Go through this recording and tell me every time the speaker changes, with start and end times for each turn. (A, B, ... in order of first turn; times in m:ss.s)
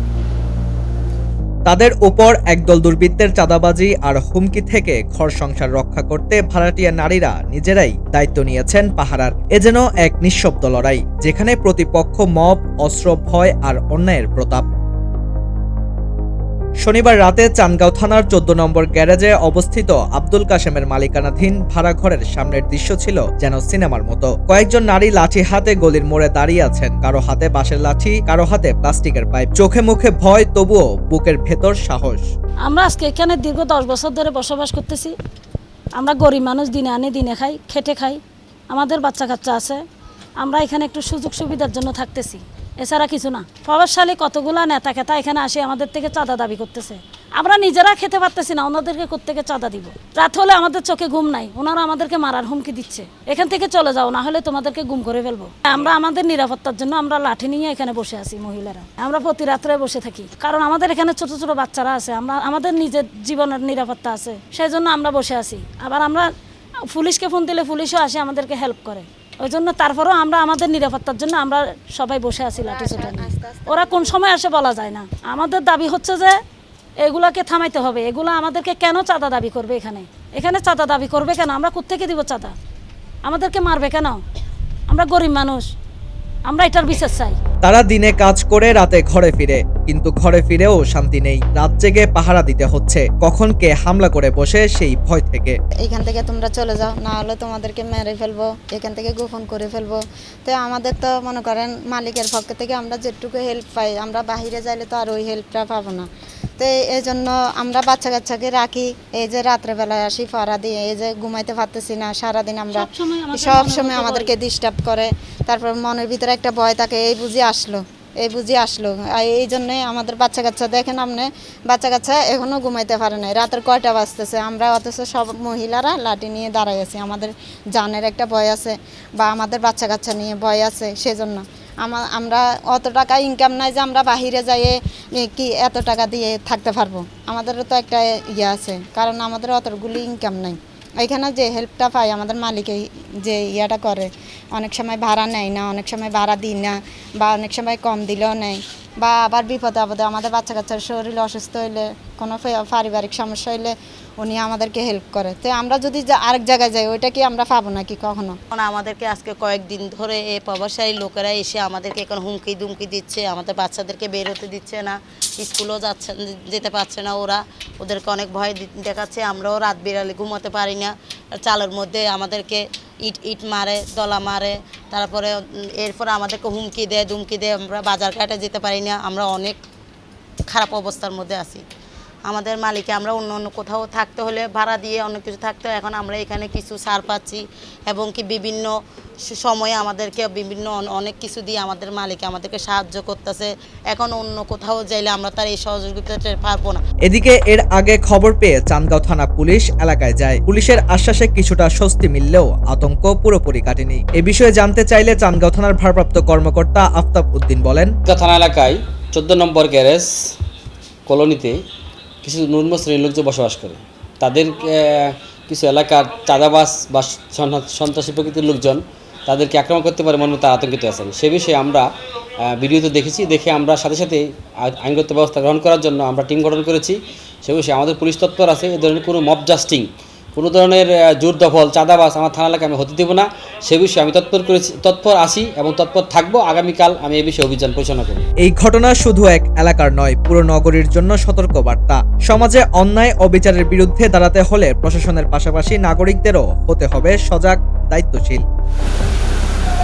0:01.7-0:14.7 A
0:16.8-0:32.3 A
0:32.6-0:35.1 B
0:36.0-0:39.8 B
0:40.4-1:06.3 B
1:06.9-1:16.4 B
1:12.5-1:14.2 C
1:17.0-1:22.5 B
1:23.2-1:24.2 B
1:24.9-1:25.7 B
1:26.5-1:27.4 B
1:27.6-1:35.6 A
1:35.8-1:46.1 C
1:46.6-2:38.4 C
1:52.7-1:54.3 B
2:38.5-2:59.6 D
3:00.5-3:01.6 D
3:02.2-3:16.8 D
3:17.0-3:27.9 A
3:28.1-3:30.3 E
3:31.0-3:31.6 E
3:32.2-3:41.9 E
3:42.4-3:58.2 E
3:58.4-4:08.4 A